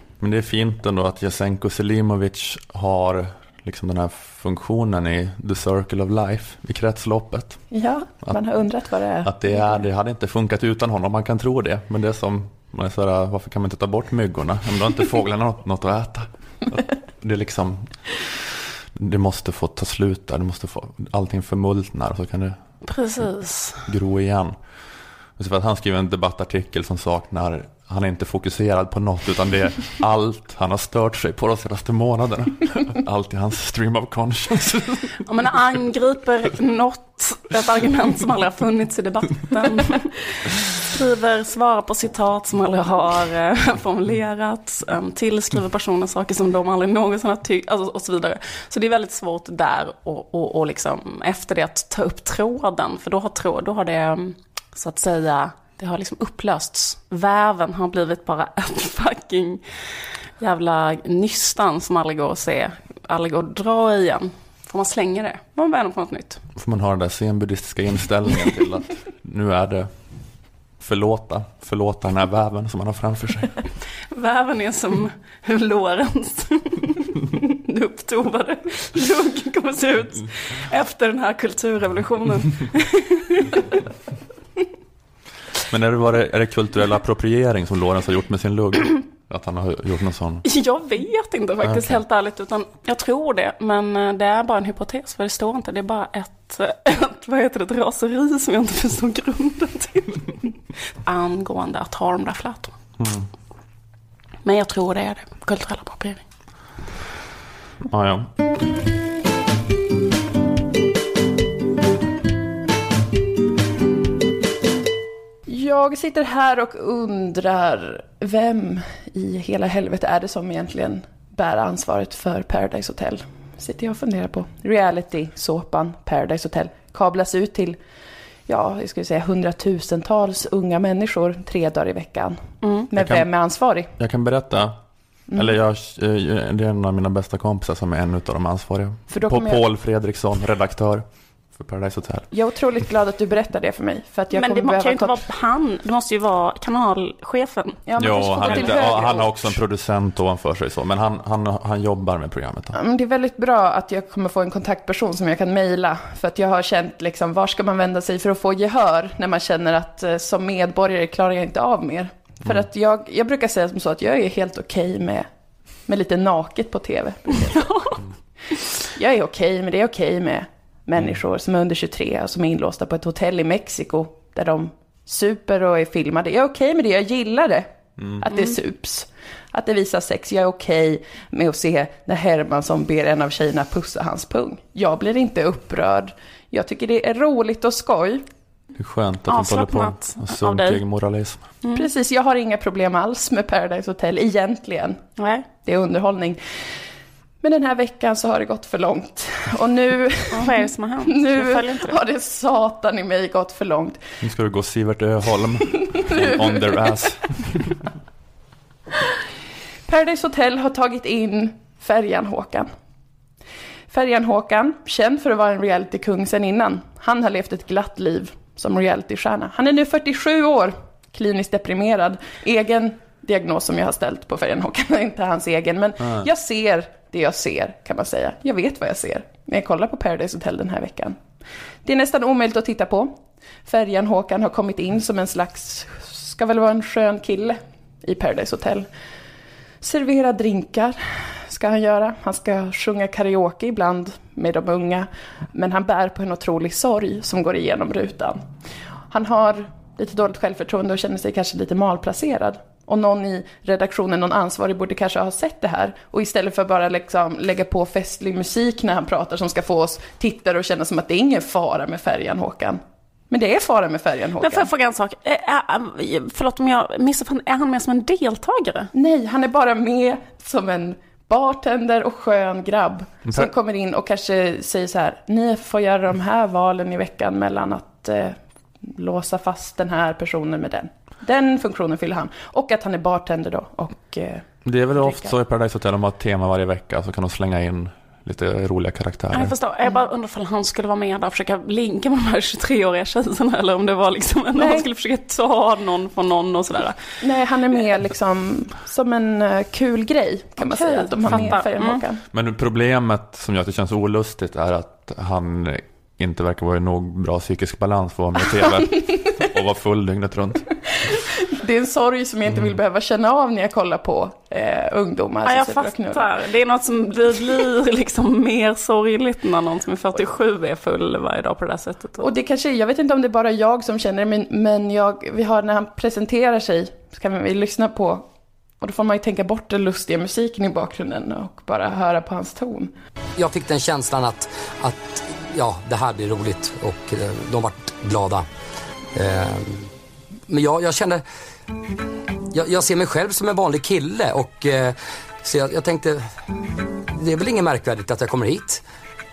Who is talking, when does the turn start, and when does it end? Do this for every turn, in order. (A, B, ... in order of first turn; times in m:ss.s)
0:00.2-0:07.6 A
0:07.7-0:09.8 B
0:09.2-0:22.6 A
0:22.9-0:23.9 C
0:23.9-0:24.6 A
0:25.4-0:35.2 A
0:35.2-0:59.6 C
1:00.4-1:06.4 C
1:06.6-1:09.9 A
1:10.8-1:13.6 A
1:14.1-1:23.8 C
1:25.7-1:30.4 A
1:30.4-1:40.5 C
1:31.6-1:32.0 A
1:41.0-1:42.7 C
1:43.0-1:43.3 A
1:44.4-1:46.2 C
1:47.8-1:48.3 A
1:55.5-2:07.8 B
2:08.5-2:13.9 B
2:13.0-2:13.3 A
2:14.0-2:14.8 A
2:15.3-2:22.3 A
2:19.1-2:19.6 B
2:22.3-2:25.2 B
2:24.3-2:27.8 C
2:27.9-2:29.6 B
2:28.0-2:32.8 A
2:28.4-2:28.8 C
2:32.7-2:45.3 B
2:45.9-2:47.7 B
2:47.6-2:48.0 C
2:48.9-3:08.2 B
3:08.8-3:11.4 A
3:09.3-3:10.8 C
3:11.6-3:11.9 C
3:11.7-3:15.0 B
3:15.2-3:15.5 C
3:15.6-3:16.7 B
3:17.4-3:20.5 B
3:20.3-3:22.0 C
3:21.1-3:24.0 B
3:24.2-3:27.8 A
3:26.2-3:26.6 B
3:29.9-3:32.7 B
3:33.9-3:51.2 B
3:51.8-3:53.1 B
3:53.7-3:58.9 B
3:59.8-4:08.4 B
4:09.1-4:24.7 B
4:24.4-4:28.9 C
4:28.9-4:45.3 B
4:44.6-4:49.6 A
4:49.3-4:57.0 C
4:54.6-4:54.9 B
4:57.2-5:02.2 B
5:00.6-5:02.0 C
5:01.3-5:01.6 A
5:02.3-5:10.7 A
5:11.5-5:16.3 B
5:15.4-5:22.3 C
5:22.2-5:28.3 B
5:28.8-5:32.9 B
5:33.4-5:38.5 D
5:39.2-5:39.9 D
5:40.5-5:41.2 D
5:42.5-5:46.3 D
5:47.2-5:48.8 D